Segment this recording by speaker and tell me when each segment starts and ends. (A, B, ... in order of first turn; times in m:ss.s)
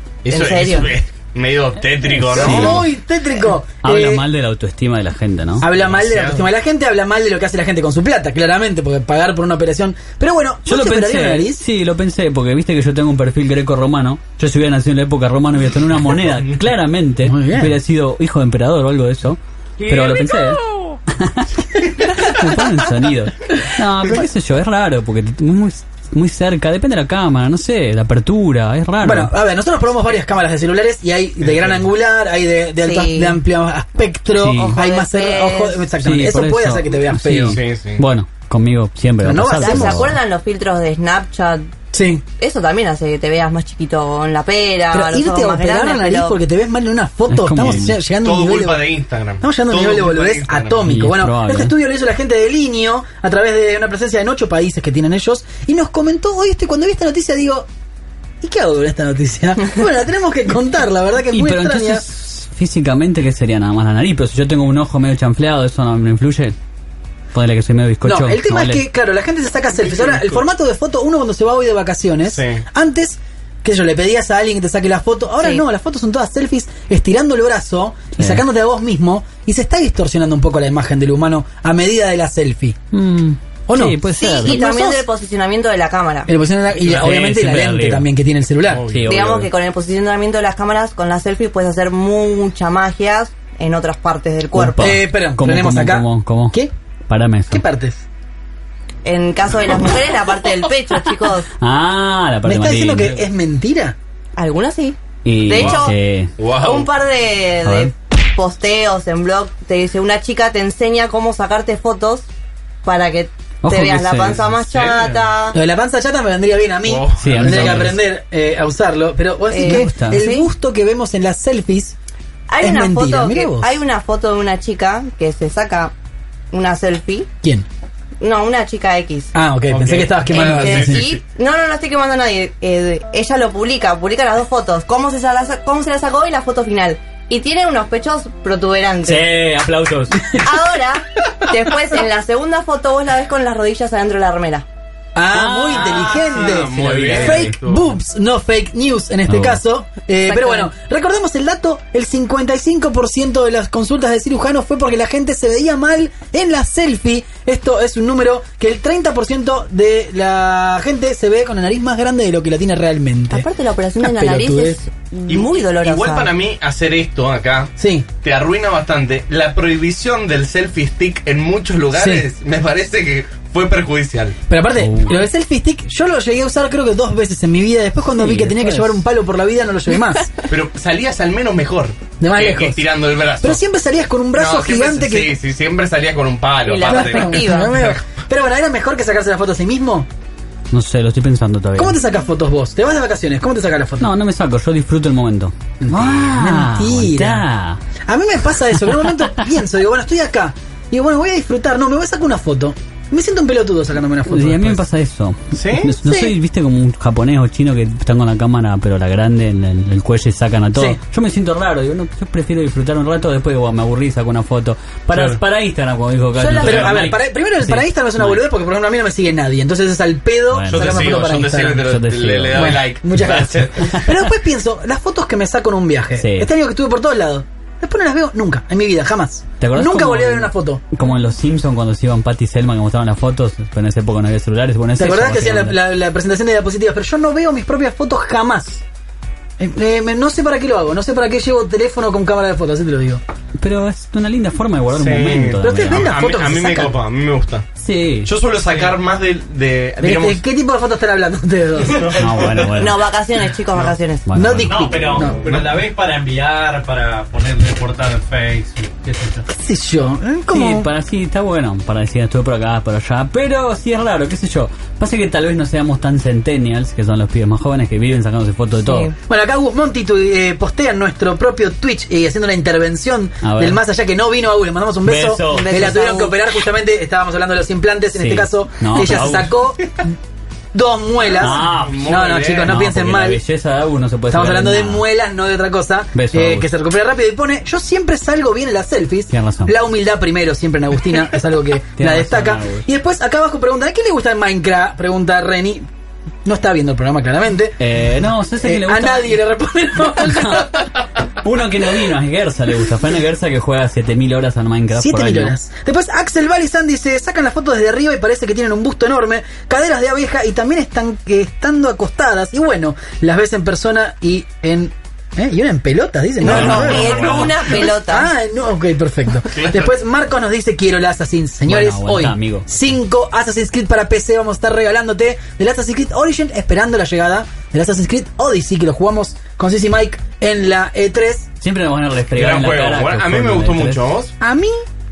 0:00.2-0:02.8 A
0:00.3-0:01.0 B
0:02.1-0:02.8 C
0:02.3-0:04.2 D
0:03.8-0:05.7 C
0:05.6-0:11.6 D
0:05.7-0:06.5 A
0:10.6-0:29.3 C
0:17.2-0:17.8 D
0:29.0-0:37.6 D
0:31.4-0:31.8 A
0:32.8-0:33.4 B
0:34.3-0:34.8 C
0:34.6-0:35.8 B
0:36.0-0:40.2 C
0:37.5-0:38.0 A
0:39.2-0:40.1 D
0:39.6-0:41.7 B
0:41.9-0:42.2 D
0:42.4-0:46.4 B
0:44.9-0:57.7 D
0:47.3-0:47.9 C
0:47.6-0:50.9 A
0:50.8-0:51.7 C
0:58.4-1:02.0 D
1:01.3-1:06.6 C
1:07.3-1:08.8 C
1:08.0-1:22.8 D
1:12.2-1:12.6 A
1:18.2-1:18.4 C
1:22.9-1:24.6 C
1:23.7-1:25.0 D
1:24.2-1:26.3 B
1:26.3-1:28.9 D
1:26.8-1:28.0 C
1:28.7-1:29.3 A
1:28.9-1:29.5 C
1:29.1-1:34.9 B
1:34.5-1:36.6 C
1:34.8-1:36.7 D
1:37.1-1:37.6 C
1:37.5-1:38.0 D
1:39.0-1:41.4 B
1:41.6-1:43.2 C
1:42.4-1:44.0 D
1:44.4-1:46.0 B
1:45.2-1:46.3 C
1:45.5-1:45.8 A
1:46.4-1:46.9 A
1:46.5-1:52.2 B
1:47.6-1:47.9 C
1:52.8-1:55.6 B
1:53.6-1:54.4 C
1:54.1-1:55.2 A
1:55.5-2:02.0 D
1:56.8-1:57.9 A
1:57.2-1:58.0 C
1:59.5-2:00.5 B
1:59.6-2:00.2 C
2:02.5-2:05.9 B
2:02.6-2:03.8 D
2:06.5-2:07.3 B
2:08.2-2:09.3 B
2:09.3-2:11.0 D
2:09.7-2:11.2 A
2:10.3-2:19.3 B
2:19.0-2:20.4 C
2:20.3-2:24.6 B
2:25.1-2:43.5 D
2:25.3-2:27.5 C
2:25.8-2:27.8 A
2:29.3-2:29.6 C
2:30.2-2:30.7 B
2:43.3-2:46.3 B
2:44.0-2:44.8 D
2:45.3-2:54.4 A
2:47.8-2:48.1 D
2:51.9-2:52.2 D
2:54.5-3:00.3 D
2:54.8-2:55.2 C
2:58.2-2:59.0 C
3:00.5-3:03.6 A
3:02.2-3:02.8 D
3:03.4-3:05.4 D
3:04.3-3:07.9 A
3:06.6-3:07.8 B
3:06.8-3:10.1 D
3:10.7-3:12.0 C
3:11.8-3:14.1 D
3:14.0-3:17.8 C
3:15.8-3:17.4 D
3:18.0-3:24.8 D
3:24.3-3:38.4 C
3:25.5-3:25.9 A
3:26.0-3:26.3 D
3:30.7-3:31.0 D
3:35.1-3:35.4 A
3:36.3-3:41.8 D
3:36.5-3:37.1 A
3:40.5-3:42.8 C
3:40.7-3:44.0 A
3:42.5-3:50.8 D
3:46.2-3:46.5 C
3:49.6-3:55.8 C
3:55.0-3:58.8 D
3:59.6-4:03.2 D
4:03.6-4:06.1 C
4:04.9-4:07.7 A
4:05.6-4:07.0 D
4:07.8-4:08.3 C
4:08.2-4:10.4 A
4:10.0-4:12.1 D
4:11.9-4:12.7 A
4:12.2-4:13.1 C
4:12.7-4:14.2 B
4:14.3-4:15.3 C
4:14.3-4:15.4 D
4:14.7-4:19.4 E
4:15.4-4:15.8 A
4:19.5-4:20.9 D
4:20.5-4:29.1 C
4:28.8-4:29.1 B
4:29.3-4:40.1 D
4:33.4-4:33.8 C
4:35.0-4:36.0 C
4:35.5-4:36.4 B
4:38.1-4:39.5 C
4:40.7-4:43.4 D
4:41.3-4:42.7 A
4:41.4-4:45.0 C
4:44.3-4:55.9 D
4:46.1-4:46.7 C
4:49.3-4:49.8 C
4:52.0-4:52.8 C
4:56.4-4:57.8 D
4:57.8-4:59.4 C
4:58.6-5:00.9 D
5:00.2-5:00.8 C
5:01.4-5:05.5 C
5:04.9-5:31.5 D
5:16.4-5:18.3 B
5:16.4-5:17.5 C
5:16.4-5:17.6 A
5:19.5-5:19.9 A
5:21.6-5:22.7 C
5:31.6-5:34.0 C
5:32.3-5:34.3 A
5:34.4-5:34.8 D